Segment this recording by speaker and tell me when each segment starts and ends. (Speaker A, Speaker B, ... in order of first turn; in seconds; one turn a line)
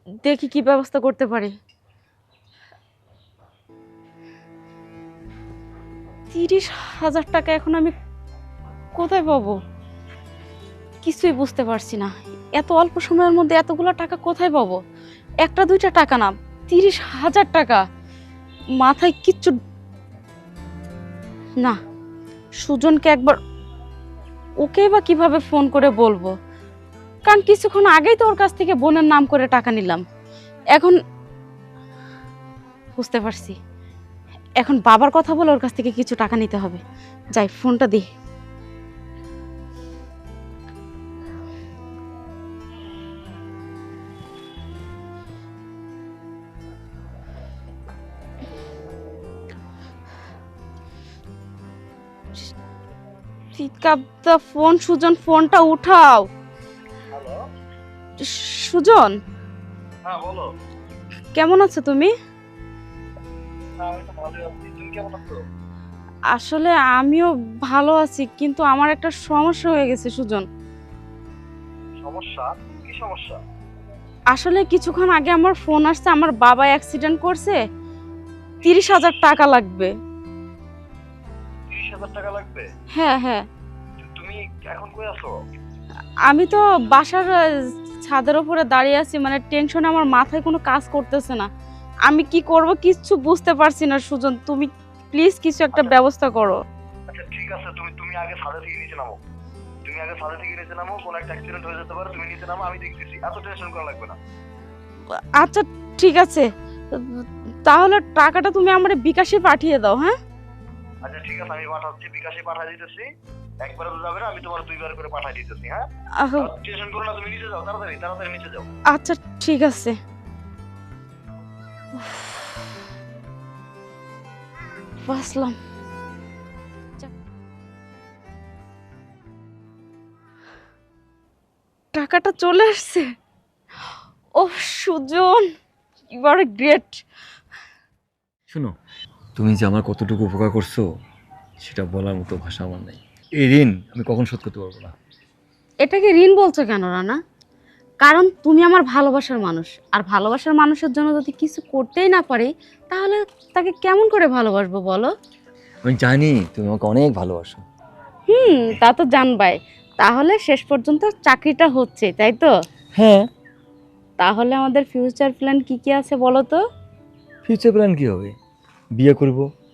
Speaker A: 0.2-1.5
Speaker A: 6.3-7.9
Speaker A: 8.9-9.6
Speaker A: 11.0-14.8
Speaker A: 15.4-17.8
Speaker A: 18.8-19.6
Speaker A: 22.6-23.4
Speaker A: 24.6-26.3
Speaker A: 27.3-30.0
Speaker A: 33.0-33.6
Speaker A: 34.6-36.8
Speaker A: 37.4-38.1
Speaker A: 53.5-56.3
Speaker B: 57.1-57.4
Speaker A: 58.2-59.1
Speaker B: 60.1-60.5
Speaker A: 61.4-62.1
Speaker B: 63.8-65.4
Speaker A: 66.3-70.5
Speaker B: 72.0-73.4
Speaker A: 74.3-77.6
Speaker A: 78.6-79.9
Speaker B: 81.7-82.7
Speaker A: 82.9-83.4
Speaker B: 84.0-85.3
Speaker A: 86.3-91.5
Speaker A: 92.1-96.6
Speaker B: 97.1-99.2
Speaker B: 99.8-104.2
Speaker A: 105.2-110.2
Speaker B: 111.0-113.1
Speaker B: 113.6-115.9
Speaker A: 116.2-116.5
Speaker B: 116.4-118.7
Speaker A: 118.9-120.0
Speaker A: 122.0-122.5
Speaker A: 125.0-125.6
Speaker A: 131.9-133.1
Speaker A: 134.3-135.5
Speaker A: 136.1-137.0
Speaker C: 138.5-138.7
Speaker C: 139.4-140.8
Speaker C: 141.6-144.9
Speaker A: 145.8-147.2
Speaker A: 148.0-155.1
Speaker C: 155.8-157.6
Speaker A: 158.3-162.5
Speaker C: 162.9-163.3
Speaker A: 164.2-166.6
Speaker C: 167.4-168.3
Speaker C: 168.9-169.5